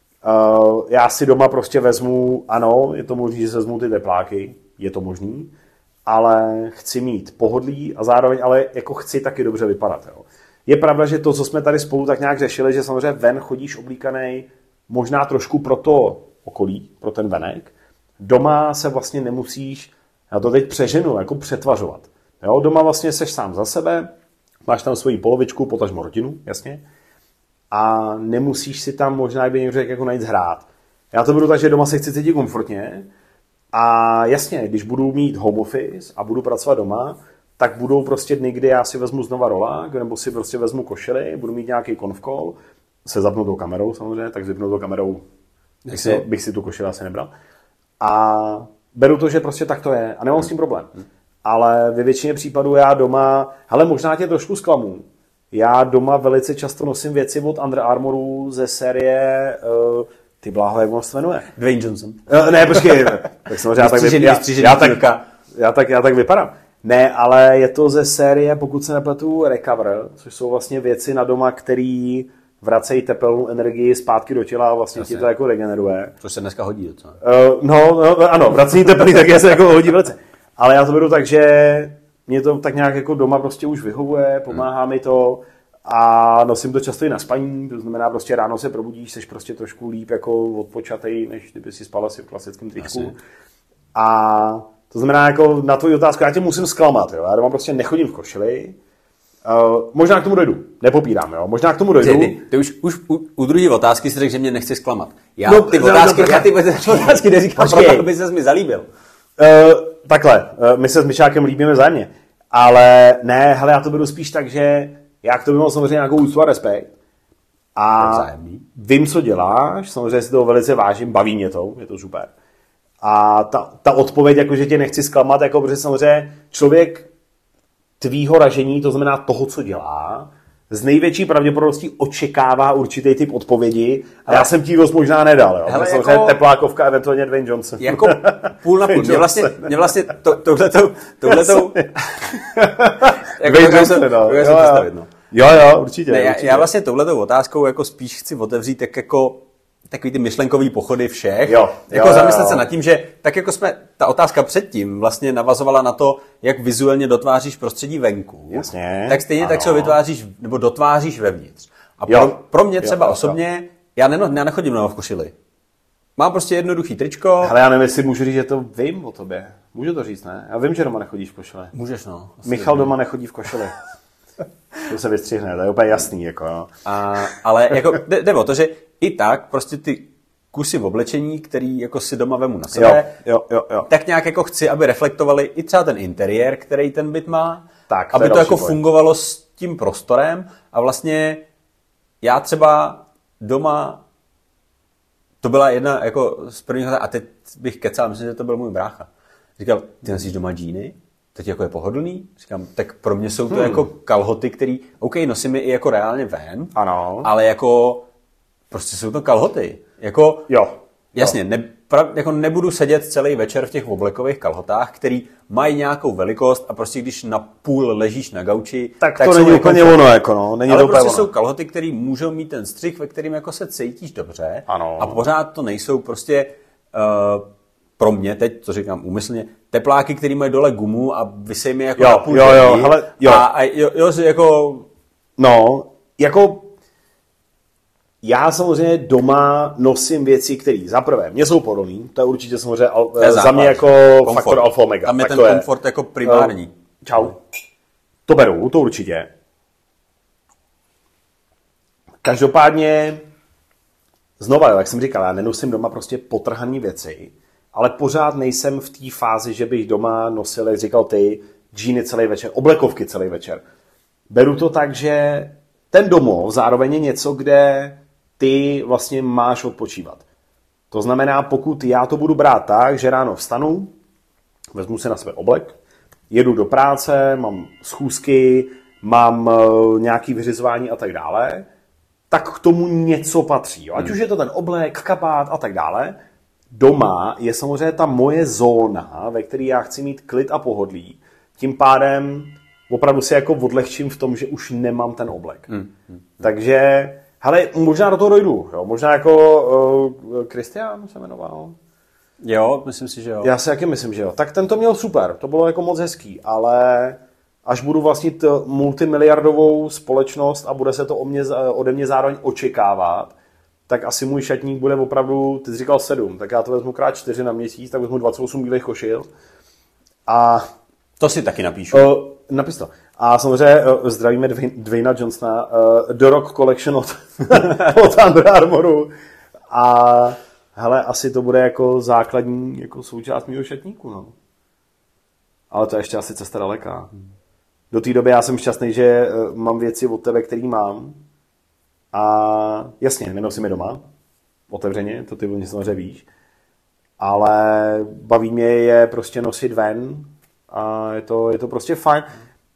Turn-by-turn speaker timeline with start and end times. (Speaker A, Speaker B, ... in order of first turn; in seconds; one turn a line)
Speaker A: 0.2-5.5
Speaker A: 6.1-24.1
Speaker A: 24.6-26.8
Speaker A: 27.7-33.1
Speaker A: 33.7-45.2
Speaker B: 45.9-46.2
Speaker A: 45.9-47.3
Speaker A: 48.0-50.9
Speaker A: 51.4-61.5
Speaker B: 61.5-63.2
Speaker A: 62.3-76.1
Speaker B: 63.7-65.3
Speaker B: 75.0-75.3
Speaker B: 76.2-77.2
Speaker A: 77.2-93.2
Speaker B: 92.8-93.1
Speaker A: 93.9-98.8
Speaker A: 99.4-102.4
Speaker B: 102.0-108.9
Speaker A: 105.5-108.1
Speaker A: 109.4-116.9
Speaker A: 117.8-122.3
Speaker B: 118.0-118.7
Speaker A: 123.0-127.1
Speaker A: 128.0-139.9
Speaker B: 135.7-136.4
Speaker B: 137.8-142.4
Speaker A: 141.3-146.7
Speaker B: 143.0-145.1
Speaker B: 146.1-165.3
Speaker A: 151.5-152.7
Speaker A: 158.5-160.0
Speaker A: 162.1-163.4
Speaker B: 166.2-167.5
Speaker A: 167.4-171.7
Speaker B: 171.7-172.9
Speaker A: 172.4-173.8
Speaker A: 174.8-176.7
Speaker B: 176.8-183.2
Speaker A: 182.7-183.9
Speaker B: 183.9-191.5
Speaker A: 187.9-188.8
Speaker B: 192.2-194.0
Speaker B: 195.4-208.1
Speaker A: 203.5-203.8
Speaker A: 206.8-207.3
Speaker B: 208.7-210.6
Speaker A: 210.5-211.4
Speaker B: 211.2-220.1
Speaker A: 219.0-221.3
Speaker B: 220.7-234.9
Speaker A: 224.7-225.2
Speaker A: 232.0-233.5
Speaker A: 235.4-236.7
Speaker A: 238.2-245.7
Speaker B: 243.2-247.4
Speaker A: 246.2-247.3
Speaker A: 248.3-249.3
Speaker A: 252.2-253.2
Speaker A: 254.4-263.6
Speaker A: 264.3-270.2
Speaker A: 270.9-273.9
Speaker A: 274.7-275.8
Speaker A: 276.3-281.7
Speaker A: 282.3-286.1
Speaker A: 286.7-295.7
Speaker B: 295.7-296.1
Speaker A: 296.4-301.8
Speaker B: 302.4-303.5
Speaker A: 303.4-313.3
Speaker A: 313.9-319.3
Speaker A: 320.3-320.6
Speaker B: 321.2-322.1
Speaker A: 321.9-329.1
Speaker A: 329.7-334.3
Speaker A: 335.7-337.1
Speaker A: 337.9-341.2
Speaker A: 342.1-344.0
Speaker A: 344.7-346.3
Speaker A: 347.2-352.3